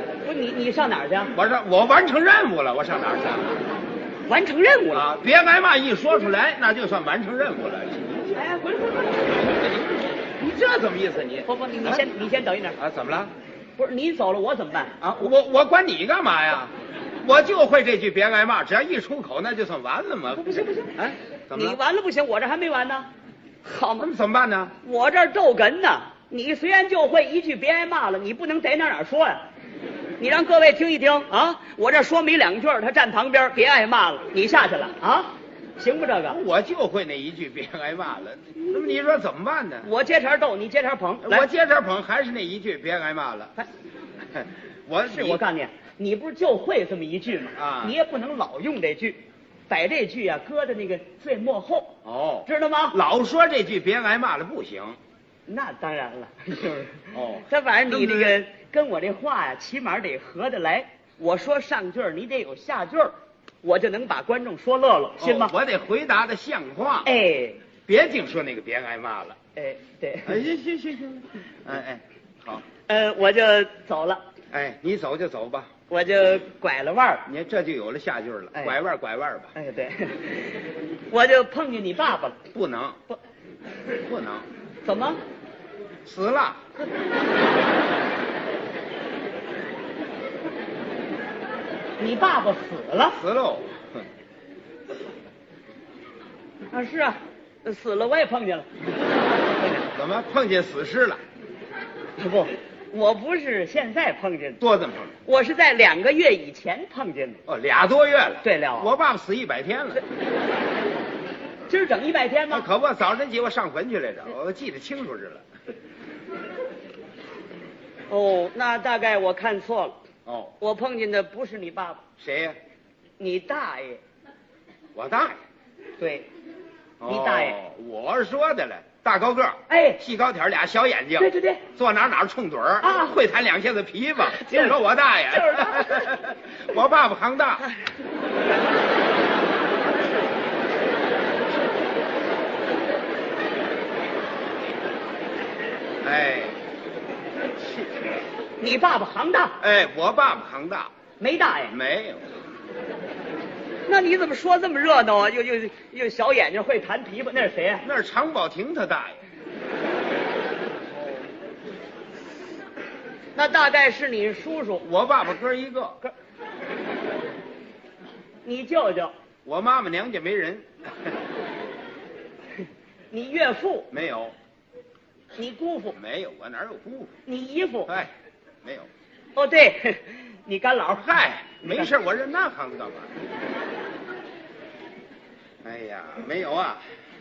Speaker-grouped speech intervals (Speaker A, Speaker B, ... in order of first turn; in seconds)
Speaker A: 0.2-1.3, 4.3-5.1, 8.4-9.3, 11.5-12.8, 13.8-15.3, 20.4-23.1, 23.6-24.1, 24.8-29.4, 30.2-36.4, 39.8-41.5, 45.1-53.0, 55.5-65.5, 67.0-67.6, 69.6-70.4, 72.9-74.2, 75.9-77.3, 79.5-82.4, 84.8-85.2, 92.0-93.2, 96.7-98.7, 99.6-99.9, 102.2-104.6, 105.3-107.4, 108.4-108.9, 111.7-112.7, 118.1-120.0, 120.6-122.0, 123.2-124.0, 126.0-126.3, 127.1-127.6, 129.7-130.0, 131.2-131.6, 132.8-133.1, 134.4-134.8, 135.3-136.1, 148.6-149.6, 151.2-151.8, 153.9-157.8, 163.3-164.8, 168.4-169.1, 173.1-173.9, 175.3-176.0, 177.3-177.9, 179.4-181.1, 181.6-181.9
Speaker B: 1.3-3.6, 4.9-8.5, 9.4-12.0, 12.8-13.3, 15.2-21.8, 24.0-24.7, 36.3-39.9, 41.2-43.5, 44.3-45.4, 47.6-48.0, 52.0-55.0, 57.1-58.4, 65.2-67.1, 67.9-69.4, 70.2-72.7, 74.5-75.7, 77.3-79.5, 82.5-83.0, 84.0-84.5, 86.0-86.6, 93.1-94.0, 99.9-101.2, 104.6-105.2, 107.5-110.0, 112.5-115.5, 120.3-120.5, 122.2-122.6, 125.0-125.4, 127.0-137.7, 146.0-146.6, 149.6-150.9, 151.7-152.3, 157.8-159.2, 164.8-166.0, 169.4-171.1, 173.9-174.3, 175.9-177.1, 181.0-183.1, 185.6-186.8